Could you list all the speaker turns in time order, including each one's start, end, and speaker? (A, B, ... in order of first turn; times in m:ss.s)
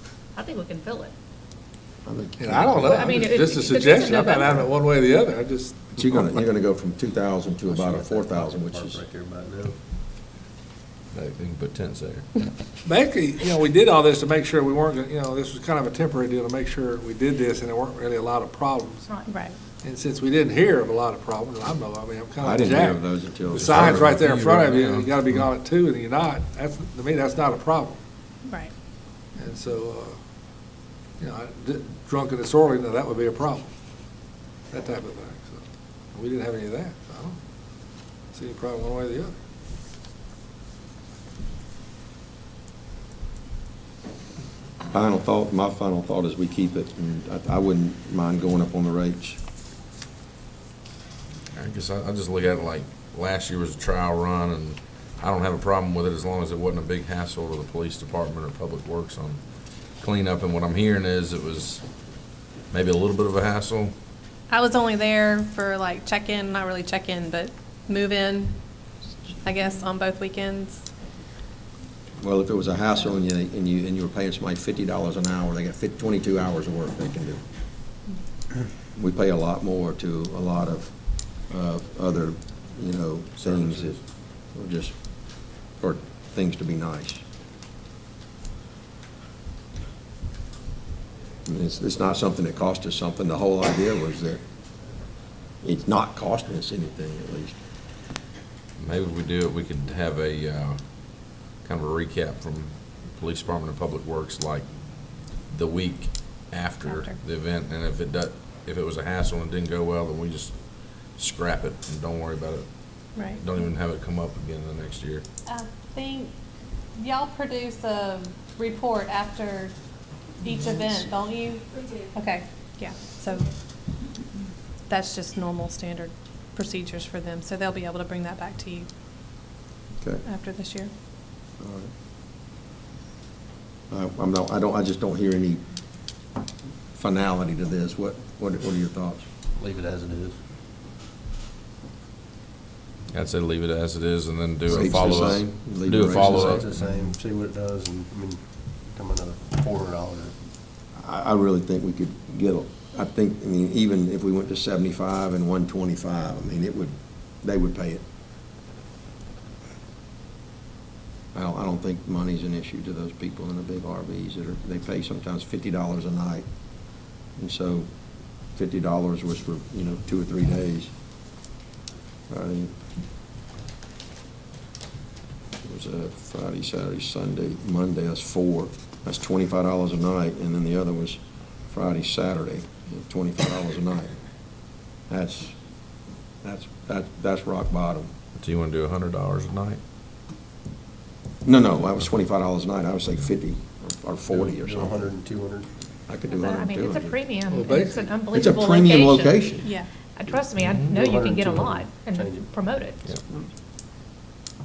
0:00.4-0:01.1 A
0:02.0-0:03.4 B
0:02.4-0:06.3 C
0:02.8-0:04.7 A
0:06.0-0:09.0 B
0:07.7-0:09.8 D
0:11.1-0:12.4 E
0:12.8-0:19.1 C
0:19.0-0:19.5 A
0:19.3-0:19.6 F
0:19.8-0:23.0 C
0:22.4-0:24.2 B
0:23.5-0:25.5 E
0:23.6-0:28.0 C
0:29.4-0:30.2 C
0:31.2-0:33.7 C
0:34.7-0:37.4 C
0:38.3-0:39.3 C
0:44.9-0:49.4 B
0:51.5-0:59.4 E
1:00.0-1:01.8 E
1:02.7-1:03.9 E
1:04.5-1:08.6 F
1:09.4-1:10.9 F
1:12.2-1:17.4 B
1:19.0-1:27.2 B
1:31.5-1:34.4 B
1:35.6-1:37.6 B
1:38.8-1:40.8 E
1:41.6-1:44.7 E
1:45.5-1:50.6 E
1:46.8-1:47.2 F
1:51.1-1:55.2 E
1:53.2-1:53.4 F
1:55.5-1:56.3 F
1:57.0-1:59.7 F
2:00.4-2:03.4 F
2:04.9-2:08.9 F
2:10.2-2:10.9 F
2:11.6-2:11.9 B
2:13.9-2:15.6 B
2:16.9-2:19.3 B
2:19.6-2:20.4 D
2:23.1-2:27.1 E
2:24.7-2:26.6 B
2:26.1-2:30.4 D
2:31.0-2:38.0 B
2:41.3-2:46.5 B
2:47.4-2:47.9 B
2:48.5-2:50.9 B
2:52.3-2:52.7 B
2:55.6-3:04.2 B
3:05.1-3:05.6 B
3:06.4-3:08.1 B
3:08.4-3:09.8 E
3:11.4-3:15.1 B
3:14.3-3:15.7 D
3:16.1-3:17.2 B
3:16.3-3:23.2 A
3:17.5-3:18.1 C
3:18.3-3:19.7 B
3:19.6-3:19.9 F
3:20.6-3:20.9 E
3:20.9-3:22.5 D